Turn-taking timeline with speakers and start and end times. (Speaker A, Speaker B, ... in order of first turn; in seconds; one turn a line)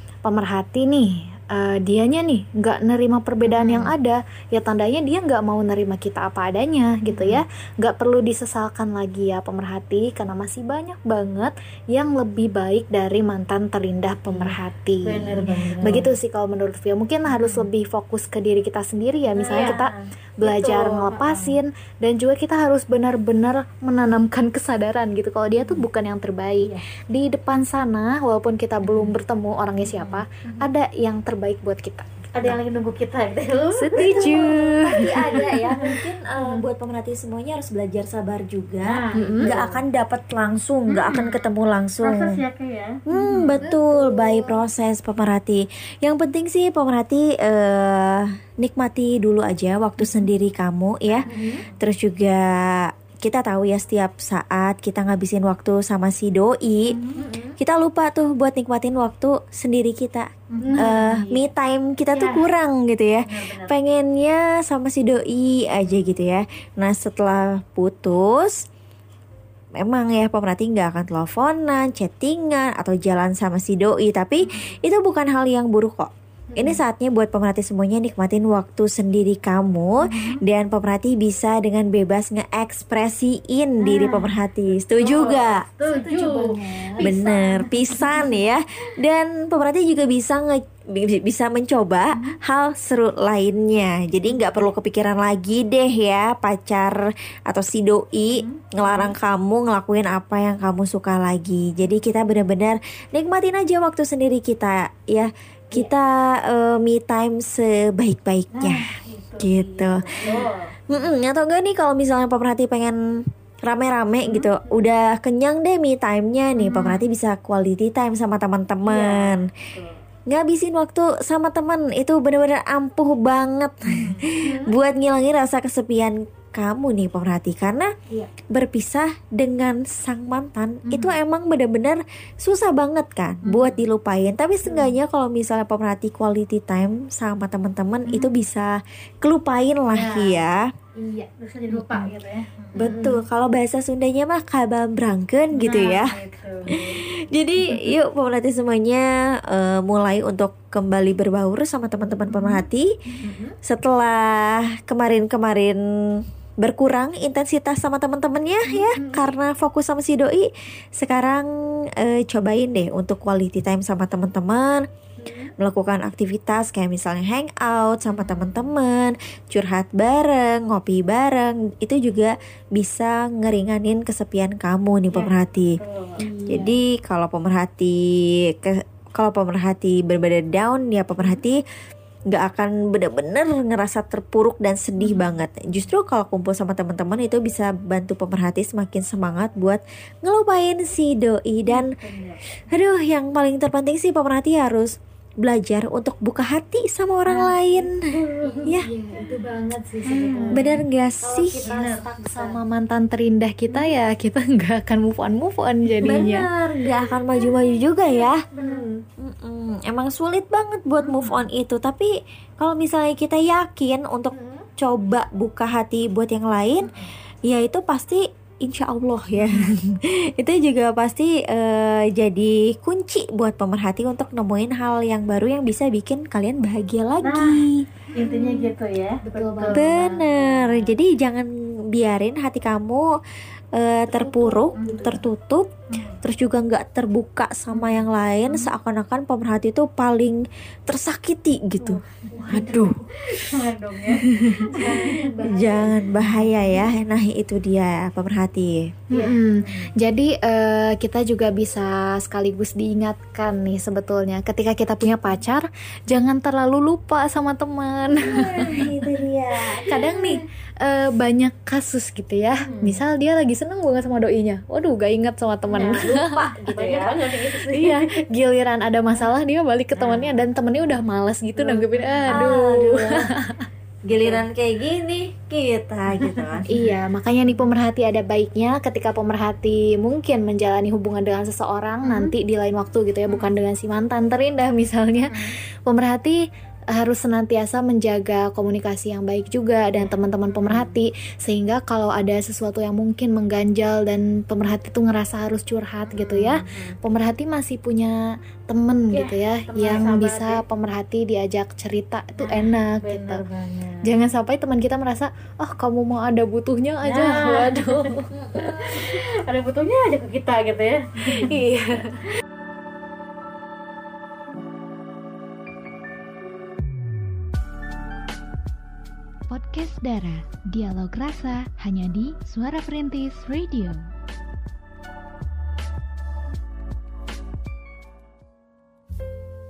Speaker A: 0.2-32.6
Speaker B: 3.5-3.9
Speaker B: 7.1-7.4
Speaker B: 15.0-16.1
Speaker B: 17.3-17.7
Speaker C: 19.4-19.9
Speaker B: 19.4-19.8
Speaker B: 20.4-21.6
Speaker B: 25.6-25.8
Speaker B: 28.8-29.1
Speaker B: 29.9-30.6
Speaker B: 32.4-36.0
Speaker A: 33.8-35.5
Speaker C: 34.0-42.4
Speaker B: 38.8-39.8
Speaker A: 39.1-39.5
Speaker B: 41.0-41.4
Speaker A: 41.1-41.4
Speaker B: 42.0-44.5
Speaker C: 43.1-57.0
Speaker A: 43.1-43.8
Speaker A: 51.2-51.6
Speaker B: 51.2-51.8
Speaker B: 56.9-57.3
Speaker A: 57.1-57.6
Speaker C: 57.6-68.7
Speaker B: 60.5-61.2
Speaker A: 60.6-61.5
Speaker B: 62.1-62.5
Speaker B: 63.3-63.7
Speaker C: 69.8-85.7
Speaker A: 76.5-76.8
Speaker B: 80.0-80.4
Speaker B: 83.8-84.4
Speaker B: 85.0-88.5
Speaker A: 85.9-87.2
Speaker C: 87.0-108.8
Speaker B: 98.3-99.1
Speaker B: 108.5-110.8
Speaker C: 109.4-113.0
Speaker C: 113.6-119.5
Speaker B: 114.3-114.8
Speaker B: 116.6-117.0
Speaker B: 118.8-120.0
Speaker C: 120.3-127.9
Speaker B: 123.8-124.3
Speaker A: 124.4-124.7
Speaker C: 128.5-140.7
Speaker B: 133.5-133.8
Speaker B: 139.9-140.4
Speaker B: 141.0-142.8
Speaker C: 141.7-142.1
Speaker C: 142.8-146.2
Speaker A: 142.8-143.2
Speaker B: 145.5-147.0
Speaker C: 146.7-153.0
Speaker B: 147.6-147.9
Speaker B: 152.3-152.6
Speaker A: 153.2-153.5
Speaker C: 153.6-164.9
Speaker A: 158.8-159.2
Speaker A: 165.2-165.5
Speaker C: 165.6-175.8
Speaker B: 175.1-176.2
Speaker A: 176.2-176.7
Speaker C: 176.5-181.6
Speaker C: 182.3-192.0
Speaker B: 191.7-192.4
Speaker C: 192.6-198.1
Speaker B: 197.3-198.8
Speaker A: 198.4-206.5
Speaker C: 198.7-198.9
Speaker B: 200.1-200.8
Speaker C: 200.5-202.0
Speaker B: 201.6-202.6
Speaker C: 206.0-208.4
Speaker B: 208.5-208.8
Speaker A: 208.6-209.1
Speaker C: 209.2-227.9
Speaker B: 211.0-211.4
Speaker A: 214.3-214.7
Speaker B: 216.8-217.1
Speaker B: 227.2-227.6
Speaker B: 228.1-229.9
Speaker A: 228.2-230.9
Speaker C: 229.7-233.1
Speaker C: 233.7-242.9
Speaker A: 234.1-235.2
Speaker B: 234.8-235.2
Speaker B: 235.9-236.2
Speaker B: 237.7-238.7
Speaker B: 241.8-245.2
Speaker A: 242.3-243.0
Speaker C: 244.1-249.0
Speaker A: 244.7-246.7
Speaker B: 249.1-249.9
Speaker A: 249.1-258.9
Speaker C: 258.1-260.4
Speaker A: 259.8-266.5
Speaker B: 262.6-263.0
Speaker B: 265.7-266.1
Speaker C: 265.9-267.1
Speaker B: 266.7-268.0
Speaker A: 267.6-273.6
Speaker B: 269.9-270.4
Speaker B: 271.6-272.5
Speaker C: 272.3-273.3
Speaker C: 274.1-276.7
Speaker B: 276.1-276.9
Speaker A: 276.7-286.4
Speaker B: 282.0-282.3
Speaker B: 285.3-285.6
Speaker A: 286.9-303.4
Speaker B: 290.0-290.9
Speaker B: 296.1-297.0
Speaker B: 299.1-300.6
Speaker B: 302.4-304.1
Speaker A: 304.0-308.9
Speaker B: 307.0-311.7
Speaker A: 311.3-312.2
Speaker D: 319.5-324.1